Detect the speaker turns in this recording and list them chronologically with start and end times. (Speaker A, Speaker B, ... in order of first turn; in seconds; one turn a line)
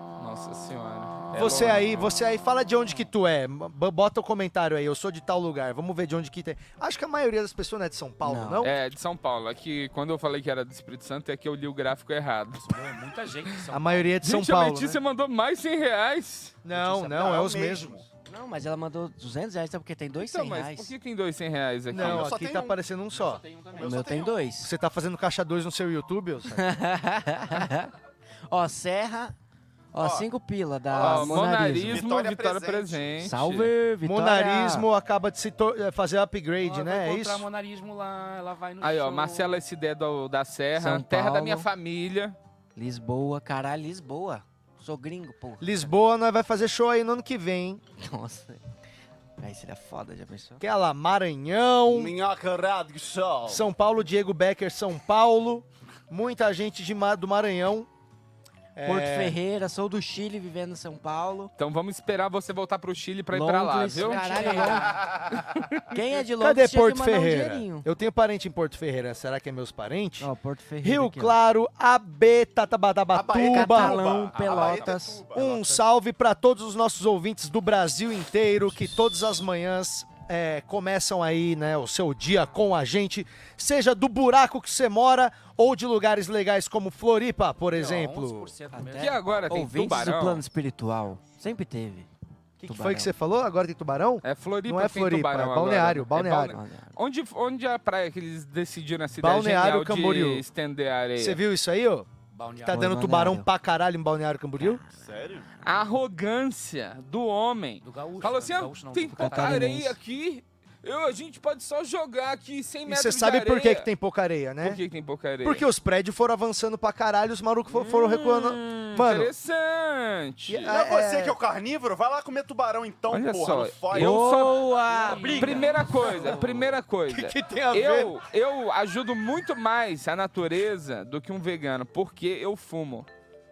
Speaker A: 0.2-2.0
Speaker B: 1.3-8.8
Speaker C: 8.2-8.7
Speaker A: 8.6-12.7
Speaker D: 12.5-14.2
Speaker B: 13.7-15.0
Speaker A: 14.2-16.6
Speaker B: 16.6-18.0
Speaker E: 16.8-18.1
Speaker C: 18.2-20.9
Speaker A: 20.2-22.2
Speaker B: 21.9-23.4
Speaker E: 21.9-22.8
Speaker D: 23.1-24.0
Speaker E: 23.7-24.5
Speaker C: 23.8-24.7
Speaker B: 24.6-26.7
Speaker C: 26.5-27.9
Speaker C: 28.5-29.3
Speaker C: 29.9-32.1
Speaker E: 30.0-30.3
Speaker E: 30.9-33.2
Speaker A: 31.0-33.7
Speaker C: 33.2-34.9
Speaker B: 34.0-37.4
Speaker D: 36.6-39.6
Speaker A: 38.8-42.4
Speaker C: 40.7-41.7
Speaker C: 42.8-45.9
Speaker B: 45.6-47.8
Speaker C: 48.0-48.6
Speaker C: 49.4-50.6
Speaker B: 50.6-52.1
Speaker E: 51.9-53.6
Speaker B: 53.5-57.9
Speaker B: 58.8-59.4
Speaker C: 58.8-61.5
Speaker A: 61.6-64.6
Speaker C: 63.3-65.0
Speaker D: 64.0-64.8
Speaker E: 64.6-65.4
Speaker A: 65.3-65.9
Speaker C: 65.9-67.9
Speaker B: 66.4-70.3
Speaker C: 70.2-71.4
Speaker B: 70.8-74.0
Speaker E: 73.1-75.6
Speaker C: 73.4-75.2
Speaker D: 74.3-74.7
Speaker B: 75.3-88.5
Speaker D: 75.5-75.8
Speaker D: 87.7-89.6
Speaker C: 88.7-92.1
Speaker A: 89.0-90.4
Speaker B: 92.6-96.5
Speaker C: 92.6-93.1
Speaker A: 94.2-101.4
Speaker C: 96.4-96.9
Speaker B: 99.2-100.4
Speaker B: 101.2-102.1
Speaker D: 102.3-102.8
Speaker B: 102.6-104.8
Speaker C: 102.7-103.5
Speaker C: 104.6-105.1
Speaker E: 105.0-105.5
Speaker A: 105.6-113.9
Speaker D: 107.8-109.8
Speaker C: 109.2-110.0
Speaker B: 112.9-114.8
Speaker A: 114.6-115.6
Speaker B: 115.4-119.3
Speaker A: 118.0-120.7
Speaker B: 120.5-121.3
Speaker E: 120.7-124.3
Speaker A: 123.1-124.7
Speaker C: 123.9-126.4
Speaker E: 124.9-125.6
Speaker A: 125.3-133.1
Speaker B: 127.1-128.1